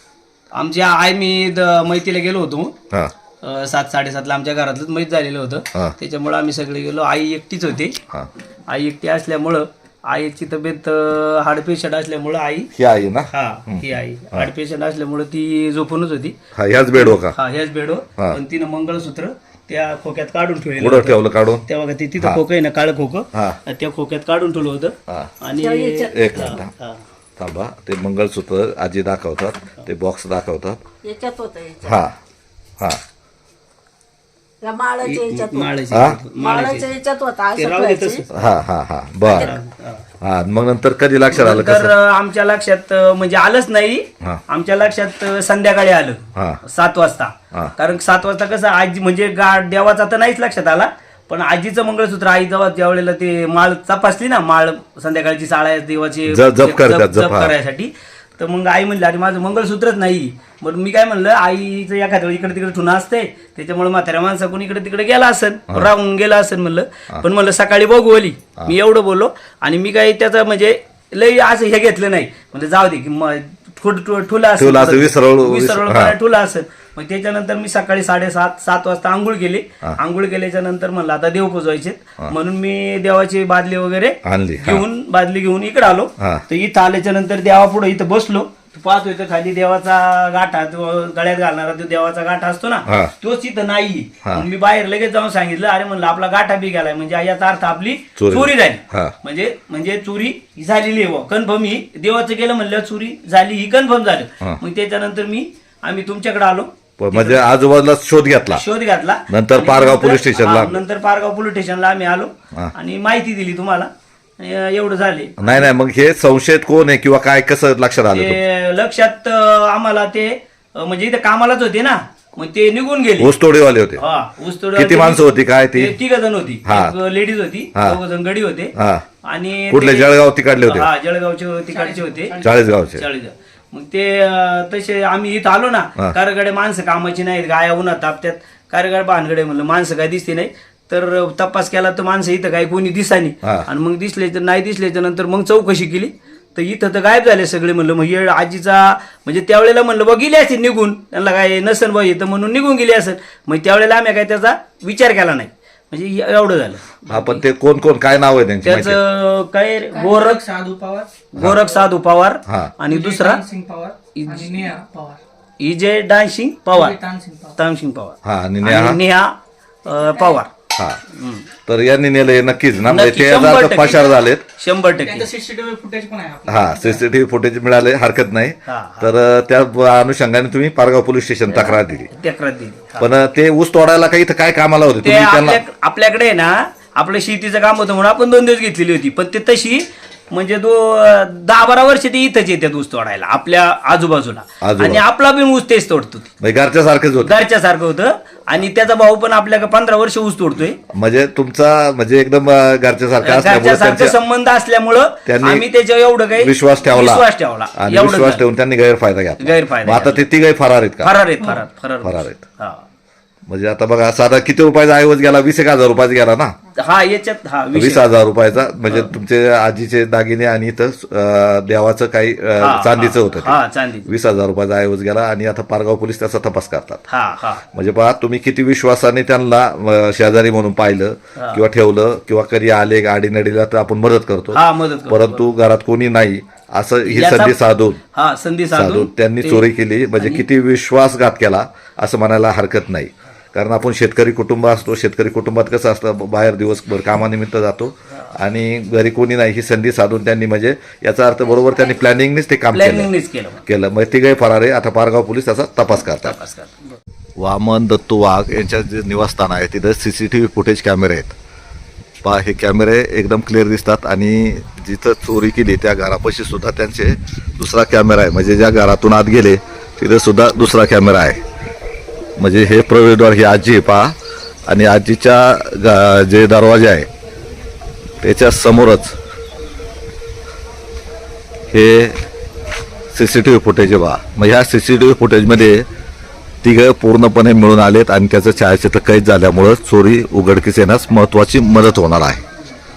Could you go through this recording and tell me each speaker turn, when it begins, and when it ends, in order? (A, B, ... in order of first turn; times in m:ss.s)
0:00.5-0:02.7 A
0:03.4-0:08.0 A
0:08.7-0:12.7 A
0:12.8-0:14.5 B
0:13.3-0:16.4 A
0:16.5-0:17.4 B
0:16.9-0:27.0 A
0:20.8-0:21.6 B
0:23.3-0:23.6 B
0:25.6-0:26.4 C
0:26.1-0:26.7 B
0:27.4-0:30.8 B
0:31.0-0:32.0 C
0:31.8-0:32.1 B
0:34.6-0:35.7 C
0:35.0-0:36.9 A
0:35.9-0:36.2 B
0:36.3-0:38.2 C
0:37.5-0:38.2 A
0:38.3-0:39.6 B
0:39.3-0:40.0 A
0:39.3-0:39.6 C
0:40.2-0:41.9 B
0:41.3-1:47.4 A
0:56.3-0:57.5 B
1:14.6-1:16.2 B
1:24.2-1:24.8 B
1:32.9-1:33.1 B
1:38.2-1:39.1 B
1:47.0-1:48.6 B
1:48.5-1:55.7 A
1:49.3-1:50.8 B
1:55.4-1:58.4 B
1:58.1-2:03.3 A
2:03.2-2:04.0 B
2:04.0-2:08.7 A
2:04.7-2:05.9 B
2:06.6-2:06.9 B
2:08.8-2:09.0 B
2:09.2-2:37.4 A
2:09.7-2:10.9 B
2:11.7-2:12.6 D
2:12.4-2:13.0 B
2:37.1-2:39.0 B
2:38.6-2:40.4 A
2:39.9-2:41.1 D
2:41.3-2:43.4 A
2:42.5-2:42.7 B
2:42.9-2:45.2 D
2:44.1-2:44.7 A
2:45.6-2:47.0 A
2:46.7-2:47.5 D
2:47.6-2:50.5 A
2:48.2-2:49.0 B
2:50.7-2:51.0 B
2:51.1-2:51.5 A
2:51.7-2:54.4 B
2:52.9-2:55.3 A
2:55.0-2:57.1 D
2:56.5-3:02.1 B
2:58.6-2:59.1 A
3:01.5-3:03.1 A
3:03.0-3:05.6 B
3:05.0-3:16.3 A
3:14.6-3:15.0 B
3:16.4-3:17.4 B
3:17.2-3:20.8 A
3:20.9-3:24.2 B
3:23.2-3:28.4 A
3:25.2-3:25.6 B
3:26.4-3:31.2 B
3:29.4-3:30.2 A
3:31.0-3:32.8 A
3:32.0-3:32.4 B
3:33.5-3:36.5 B
3:36.8-3:38.1 A
3:37.7-3:47.0 B
3:42.6-3:44.1 A
3:47.1-3:47.6 A
3:47.7-3:58.0 B
3:51.4-3:51.6 A
3:54.5-3:55.5 A
3:57.0-3:57.6 A
3:58.1-4:00.4 A
3:58.7-4:13.1 B
4:12.7-4:13.6 A
4:13.7-4:16.4 B
4:16.1-4:17.0 A
4:17.4-4:21.3 B
4:22.2-4:31.4 B
4:32.4-4:34.1 B
4:34.7-4:37.1 B
4:38.2-4:39.2 B
4:41.7-4:42.2 B
4:43.1-4:45.8 B
4:46.6-4:52.4 B